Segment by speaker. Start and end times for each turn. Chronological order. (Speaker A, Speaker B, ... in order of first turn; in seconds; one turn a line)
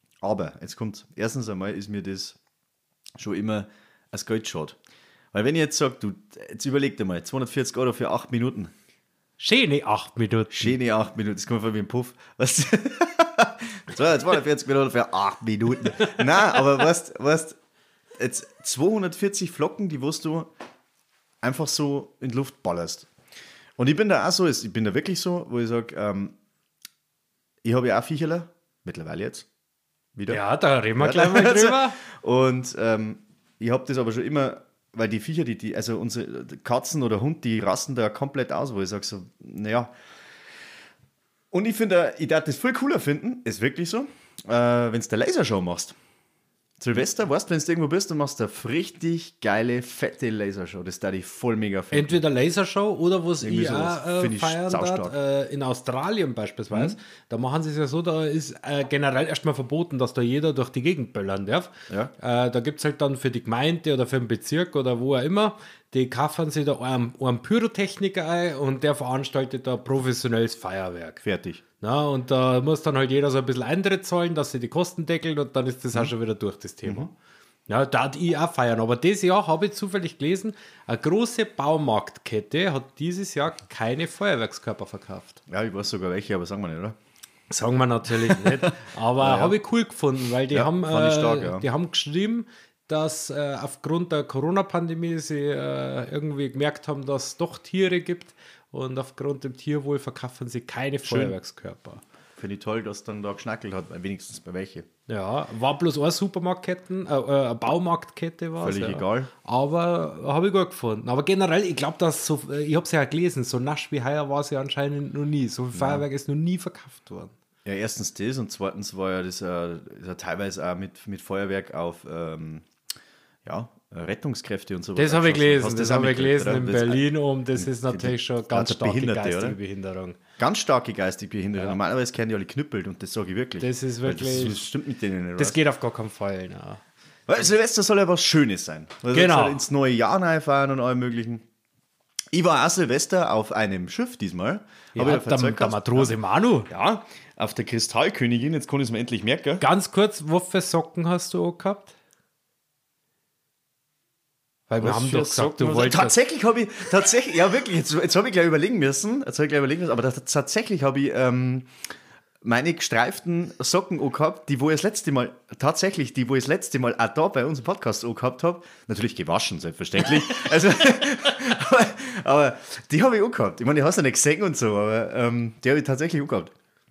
Speaker A: 0.2-2.4
Speaker A: 3.2-4.8
Speaker A: 5.3-8.7
Speaker B: 9.4-10.7
Speaker A: 10.5-17.6
Speaker A: 18.2-20.5
Speaker A: 21.4-23.1
Speaker A: 23.8-26.3
Speaker A: 27.6-29.4
Speaker A: 30.1-30.4
Speaker B: 30.3-32.0
Speaker A: 31.0-39.9
Speaker A: 41.5-46.0
Speaker A: 46.8-52.2
Speaker B: 51.9-71.2
Speaker A: 53.4-55.1
Speaker A: 56.7-57.0
Speaker A: 71.2-71.6
Speaker B: 71.8-77.1
Speaker B: 77.7-85.4
Speaker A: 85.5-87.0
Speaker B: 87.5-102.0
Speaker A: 88.3-88.6
Speaker A: 89.2-89.6
Speaker A: 90.5-91.7
Speaker A: 101.0-101.3
Speaker A: 102.4-104.8
Speaker B: 105.1-117.3
Speaker A: 108.6-109.3
Speaker A: 115.7-116.0
Speaker A: 117.6-122.7
Speaker A: 123.4-129.6
Speaker B: 125.0-130.2
Speaker A: 130.4-135.6
Speaker B: 133.6-134.6
Speaker B: 135.4-136.8
Speaker A: 137.3-141.4
Speaker B: 139.1-139.7
Speaker A: 142.3-146.1
Speaker B: 144.9-146.7
Speaker A: 146.7-149.6
Speaker B: 149.6-151.9
Speaker B: 154.7-156.2
Speaker A: 154.8-161.7
Speaker A: 162.4-176.5